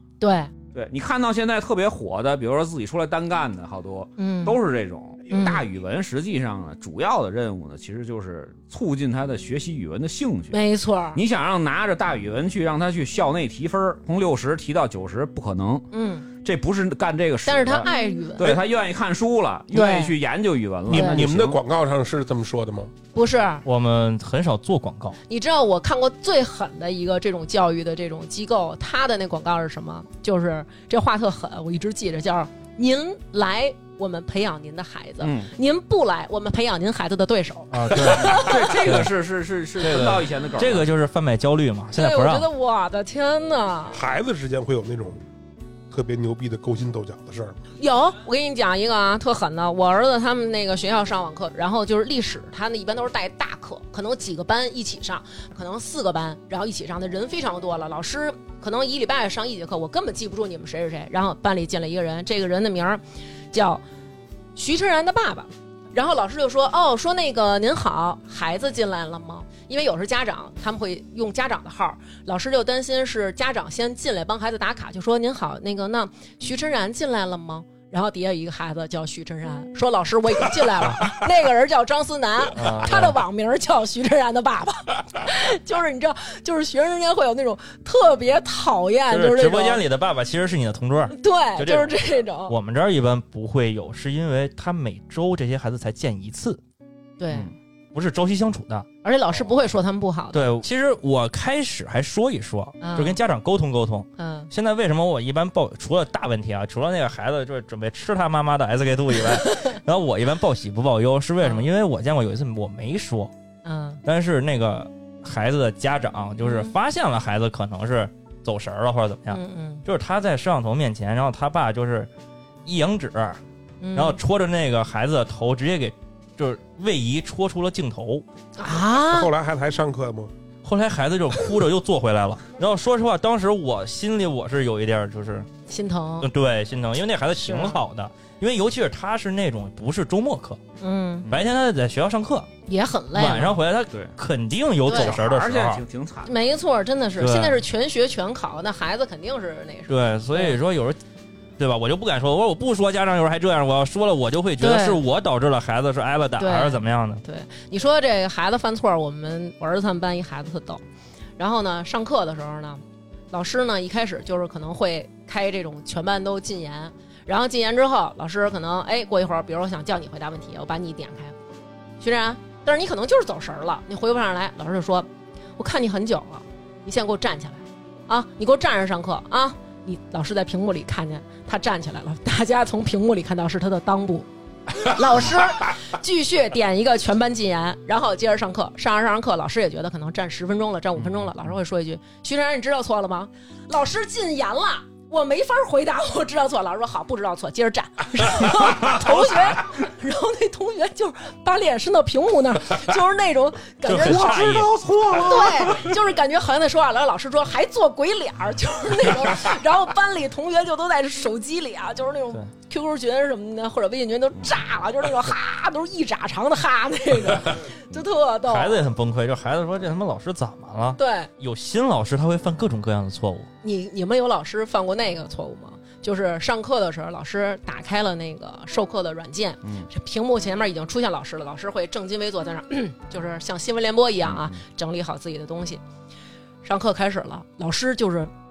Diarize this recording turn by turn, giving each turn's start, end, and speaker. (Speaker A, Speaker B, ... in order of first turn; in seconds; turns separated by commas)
Speaker A: 0.2-0.5, Speaker B: 0.7-10.6, Speaker A: 4.2-4.6, Speaker A: 5.3-5.6, Speaker A: 10.5-11.2, Speaker B: 11.1-15.9, Speaker A: 15.9-16.3, Speaker B: 16.4-21.6, Speaker A: 17.4-18.5, Speaker A: 19.7-20.2, Speaker C: 20.9-22.9, Speaker A: 20.9-21.2, Speaker A: 23.1-23.6, Speaker D: 23.6-25.2, Speaker A: 25.3-38.9, Speaker B: 35.2-35.5, Speaker D: 37.7-39.1, Speaker B: 37.9-40.9, Speaker D: 39.8-42.5, Speaker A: 42.0-44.0, Speaker C: 43.9-45.2, Speaker C: 45.9-47.6, Speaker A: 47.8-63.8, Speaker A: 64.6-89.8, Speaker D: 82.5-83.2, Speaker D: 89.1-96.6, Speaker A: 91.1-92.5, Speaker A: 97.2-97.5, Speaker D: 97.9-98.9, Speaker A: 99.0-100.6, Speaker D: 100.3-113.3, Speaker A: 102.8-103.2, Speaker A: 104.2-104.5, Speaker A: 109.2-109.7, Speaker A: 111.4-111.7, Speaker A: 113.7-114.0, Speaker D: 114.0-122.1, Speaker A: 116.4-116.8, Speaker A: 119.3-119.8, Speaker D: 122.7-123.4, Speaker A: 123.8-124.2, Speaker D: 124.0-128.2, Speaker A: 128.6-129.3, Speaker C: 128.8-130.3, Speaker D: 130.6-135.5, Speaker A: 135.7-136.3, Speaker D: 136.2-140.6, Speaker A: 137.4-137.8, Speaker A: 140.8-141.3, Speaker D: 141.3-142.5, Speaker A: 142.7-143.6, Speaker D: 143.1-145.8, Speaker B: 144.8-146.3, Speaker A: 144.9-145.2, Speaker A: 146.2-150.6, Speaker D: 147.2-147.6, Speaker D: 149.9-151.0, Speaker D: 151.6-157.2, Speaker A: 154.6-155.0, Speaker A: 156.4-160.8, Speaker A: 161.4-171.4, Speaker A: 172.0-218.8, Speaker D: 203.9-204.8, Speaker B: 205.0-205.3, Speaker D: 218.5-223.5, Speaker A: 221.0-221.3, Speaker A: 223.6-235.8, Speaker B: 229.6-229.9, Speaker B: 234.2-234.6, Speaker A: 236.6-238.3